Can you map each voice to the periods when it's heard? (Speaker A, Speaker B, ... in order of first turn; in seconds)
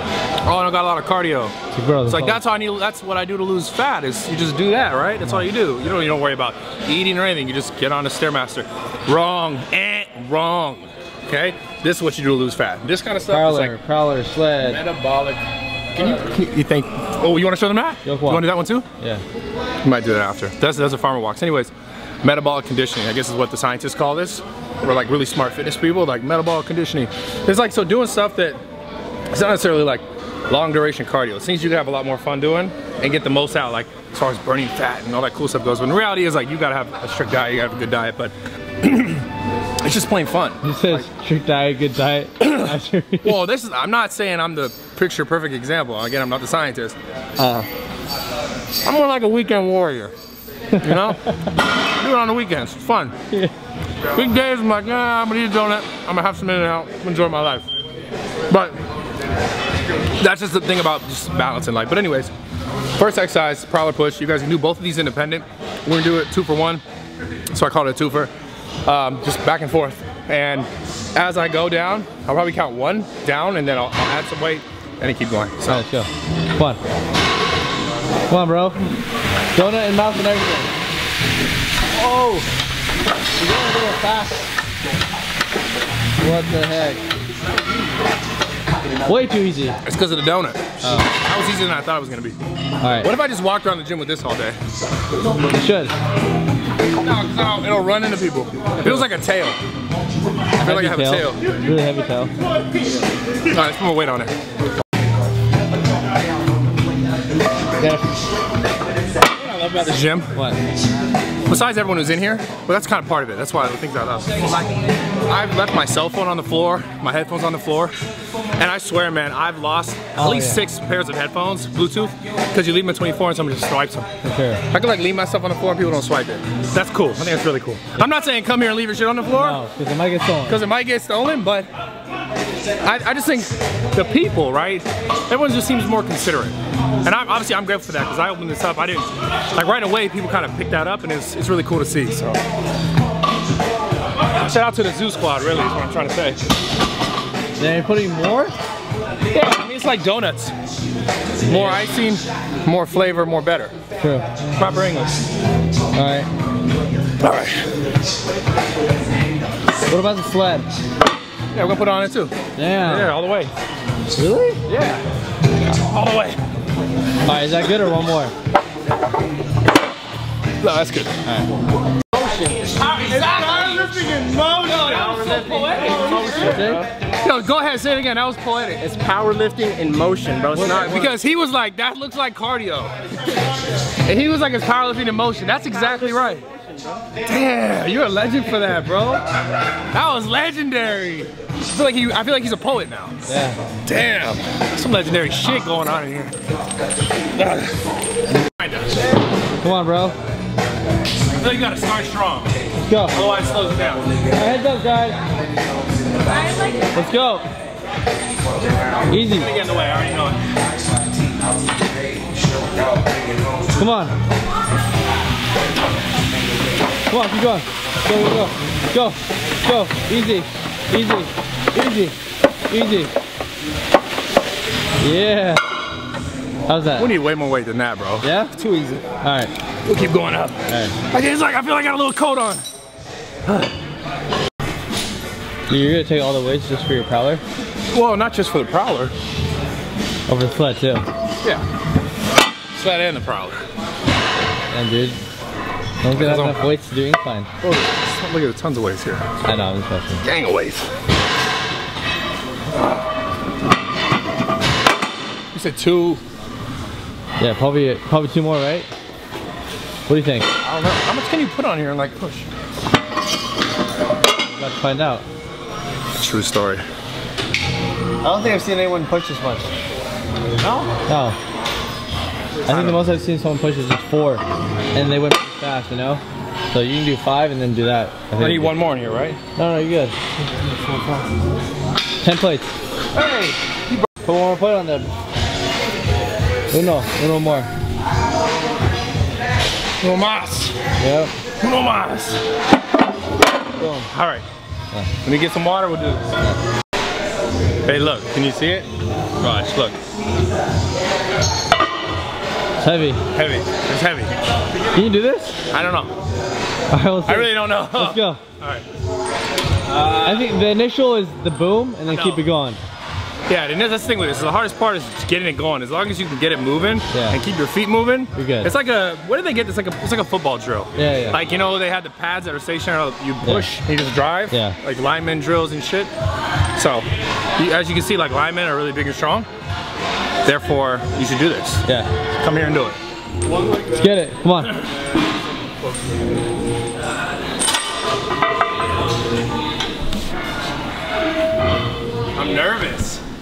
Speaker A: 0.4-1.5, 2.0-13.8, 14.6-15.4, 15.9-18.9, 19.8-21.7, 22.2-28.6, 29.3-39.3, 39.8-41.1, 42.4-47.0, 48.8-50.1, 50.8-51.2, 52.0-53.2, 54.1-57.7, 58.5-58.8, 60.2-62.3, 63.0-66.8, 67.5-68.3, 68.9-75.8, 89.8-92.4, 93.0-94.6, 97.0-99.6, 100.6-101.4, 103.5-104.3, 109.3-110.3, 111.5-118.0, 118.6-124.1, 124.7-129.6, 130.5-131.7, 132.8-142.4, 144.3-146.4, 149.3-150.5, 151.5-153.8, 154.5-155.2, 157.2-157.7, 161.5-163.5, 164.7-165.0, 165.6-166.4, 170.6-171.2, 172.7-178.8, 180.6-182.9, 184.1-186.4, 187.2-189.2, 189.9-196.3, 197.3-197.8, 198.5-199.0, 201.3-202.6, 203.1-204.1, 209.2-210.4, 227.0-229.1, 229.8-232.6, 237.9-239.1, 242.7-243.6, 246.1-246.6, 247.6-249.3, 250.2-250.9, 255.5-256.2, 260.6-262.5, 266.2-266.9, 270.6-270.9, 272.7-273.0, 278.4-279.4, 280.8-281.3, 283.1-284.1, 290.0-290.8, 291.6-292.4, 294.1-294.4, 295.2-296.3, 297.9-298.9, 299.4-300.0, 303.3-304.3, 305.7-306.1, 307.3-308.9, 309.9-310.5, 312.1-312.4, 313.5-326.1, 326.8-329.5, 330.4-331.9, 332.4-333.0, 342.4-343.2
Speaker B: 1.7-2.4, 13.3-14.8, 18.1-18.5, 40.6-43.4, 47.4-47.7, 50.8-51.0, 75.7-76.8, 78.3-78.8, 79.5-80.7, 82.0-82.5, 83.4-84.5, 86.2-87.0, 89.1-89.8, 90.8-91.1, 92.8-93.1, 95.5-95.9, 98.8-99.1, 100.6-102.3, 107.8-108.1, 120.2-120.6, 124.2-124.6, 129.3-130.6, 147.6-148.6, 151.5-151.8, 154.0-154.3, 155.9-156.3, 159.9-160.7, 162.6-163.1, 164.1-164.6, 167.3-168.3, 176.1-176.9, 180.5-181.0, 193.3-193.6, 199.6-200.2, 202.8-203.2, 204.3-205.2, 206.9-207.4, 209.1-209.5, 213.8-214.2, 217.1-222.2, 222.7-223.1, 225.0-225.6, 226.7-227.2, 228.2-228.5, 229.2-229.5, 230.7-231.0, 235.7-237.4, 240.3-241.1, 244.7-245.2, 246.0-247.5, 249.4-250.2, 257.4-258.9, 260.1-260.5, 264.6-265.2, 268.2-269.7, 271.1-271.4, 272.7-274.4, 274.9-278.8, 279.6-280.2, 282.2-282.7, 284.2-285.1, 286.7-287.7, 291.0-291.3, 293.8-294.1, 302.8-303.2, 304.9-305.6, 306.9-308.4, 310.1-312.8, 317.1-317.4, 318.4-318.7, 321.0-321.4, 323.4-323.7, 324.5-324.8, 333.9-334.8
Speaker C: 172.1-172.8, 174.7-176.8, 178.8-181.1